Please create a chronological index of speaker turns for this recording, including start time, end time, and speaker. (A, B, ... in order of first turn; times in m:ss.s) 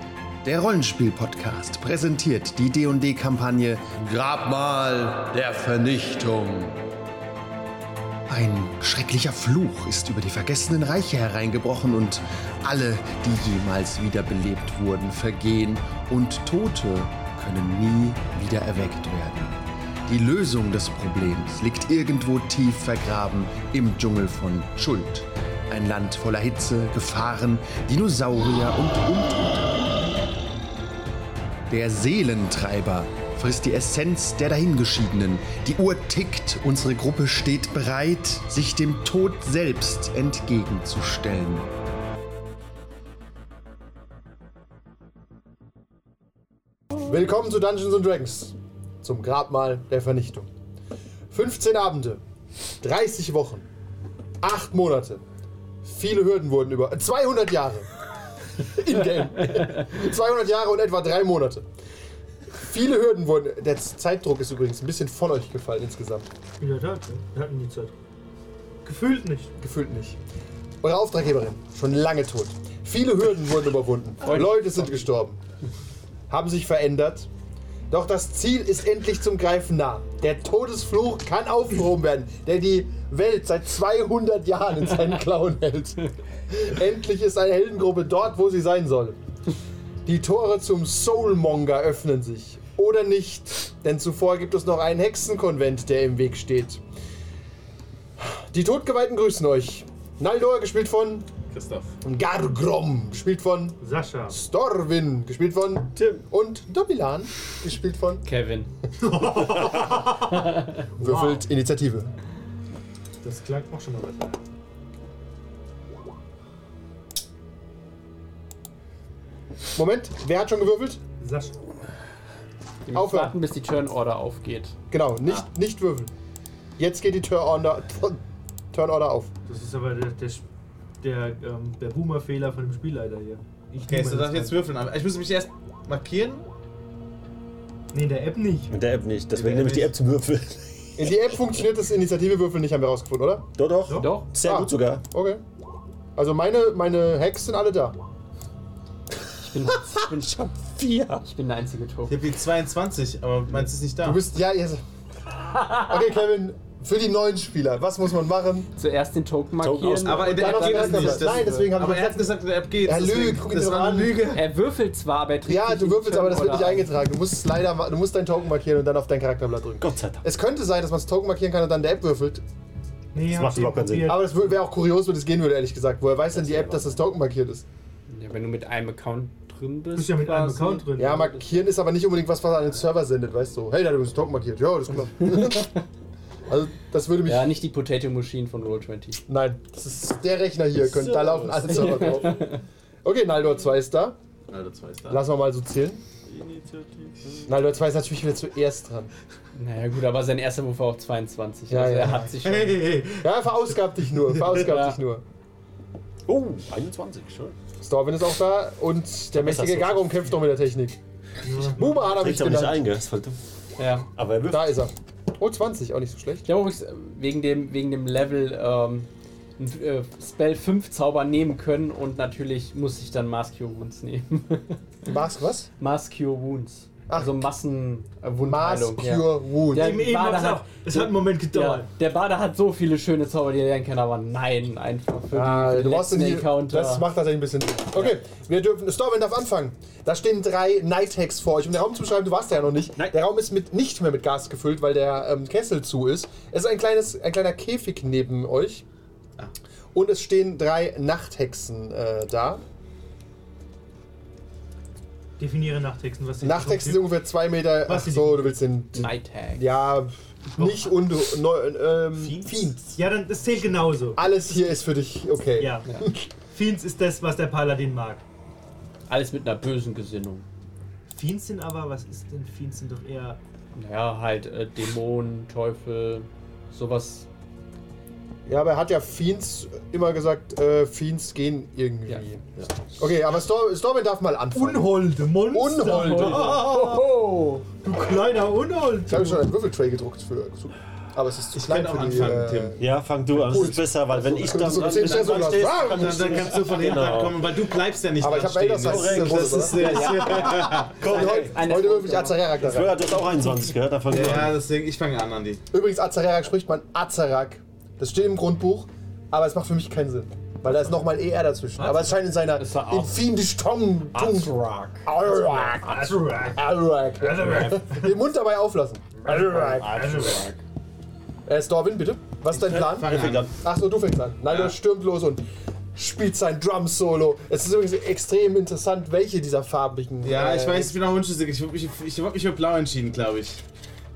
0:00.4-0:06.8 A
0:08.3-0:30.0 A
0:31.7-0:41.7 A
0:47.0-0:50.5 B
0:51.3-0:52.2 B
0:52.8-0:53.6 B
0:54.4-0:55.2 B
0:55.8-0:57.9 B
0:58.6-1:01.6 B
1:02.5-1:06.3 B
1:06.6-1:07.9 C
1:08.8-1:09.5 C
1:09.6-1:10.2 B
1:10.8-1:15.4 B
1:14.2-1:14.9 D
1:16.3-1:17.3 B
1:17.9-1:29.2 B
1:30.0-1:36.8 B
1:38.2-1:41.3 B
1:41.5-1:41.9 E
1:42.0-1:43.8 B
1:43.8-1:44.4 C
1:44.3-1:48.2 B
1:46.0-1:46.2 F
1:48.2-1:48.7 D
1:49.0-1:51.4 C
1:50.3-1:50.9 D
1:51.0-1:52.1 B
1:53.2-1:54.4 C
1:59.8-2:01.0 B
2:01.2-2:01.6 C
2:02.9-2:04.8 D
2:02.9-2:03.4 B
2:04.9-2:06.1 B
2:06.8-2:08.2 B
2:08.7-2:09.3 B
2:09.5-2:10.4 C
2:11.0-2:14.7 C
2:13.8-2:16.4 E
2:17.9-2:18.7 C
2:18.7-2:21.2 F
2:19.3-2:19.9 C
2:21.0-2:23.5 B
2:23.6-2:25.0 F
2:23.8-2:24.2 C
2:24.0-2:24.3 D
2:24.4-2:25.4 B
2:26.2-2:28.0 B
2:29.4-2:32.2 D
2:30.6-2:31.2 F
2:32.1-2:34.2 E
2:34.0-2:34.8 B
2:35.4-2:36.0 D
2:35.6-2:38.7 B
2:38.8-2:41.7 D
2:39.6-2:40.3 F
2:40.0-2:44.4 E
2:40.2-2:44.2 B
2:44.3-2:46.9 D
2:45.4-2:52.4 B
2:49.8-2:50.2 F
2:53.1-2:54.2 C
2:53.2-2:54.2 F
2:54.0-2:57.6 B
2:56.3-2:57.0 F
2:58.1-3:01.4 D
2:59.9-3:01.3 C
3:01.0-3:05.7 B
3:05.3-3:05.7 D
3:06.5-3:07.6 B
3:07.2-3:09.2 D
3:09.3-3:12.5 B
3:10.8-3:12.4 F
3:11.7-3:12.6 D
3:13.0-3:14.2 B
3:14.5-3:15.2 E
3:15.1-3:16.0 B
3:16.2-3:17.5 F
3:17.4-3:19.1 B
3:19.5-3:22.8 D
3:21.7-3:22.3 B
3:22.4-3:23.3 E
3:23.2-3:25.2 B
3:24.4-3:25.0 D
3:26.3-3:27.5 F
3:27.8-3:31.0 B
3:29.3-3:30.3 F
3:31.4-3:32.1 C
3:31.8-3:32.8 B
3:31.9-3:33.4 F
3:33.8-3:34.1 D
3:34.2-3:34.8 F
3:34.5-3:36.5 B
3:36.4-3:44.8 D
3:45.0-3:45.7 B
3:45.8-3:57.0 D
3:47.1-3:47.4 B
3:48.4-3:50.0 B
3:49.7-3:51.9 C
3:55.3-4:08.8 B
4:09.9-4:12.6 B
4:15.4-4:17.1 C
4:16.4-4:23.0 B
4:17.9-4:18.6 C
4:18.9-4:19.8 D
4:22.5-4:24.2 C
4:24.2-4:26.3 B
4:25.6-4:25.9 C
4:26.5-4:28.2 C
4:29.1-4:30.4 D
4:31.1-4:33.4 C
4:33.8-4:37.3 D
4:38.4-4:47.1 B
4:44.5-4:47.0 C
4:45.8-4:47.6 D
4:47.8-4:49.5 C
4:49.1-4:56.6 B
4:51.5-4:52.8 E
4:52.8-4:57.4 F
4:54.9-5:01.0 E
4:58.2-5:03.2 B
4:58.8-5:01.6 F
4:59.8-5:02.5 D
5:02.6-5:04.6 F
5:04.1-5:05.6 E
5:05.7-5:20.1 B
5:11.8-5:13.2 D
5:14.1-5:15.0 D
5:15.8-5:18.2 C
5:19.3-5:20.5 C
5:19.7-5:20.5 E
5:21.4-5:25.4 B
5:22.5-5:23.5 E
5:22.5-5:23.5 F
5:24.5-5:24.7 E
5:25.9-5:31.0 B
5:30.2-5:33.6 E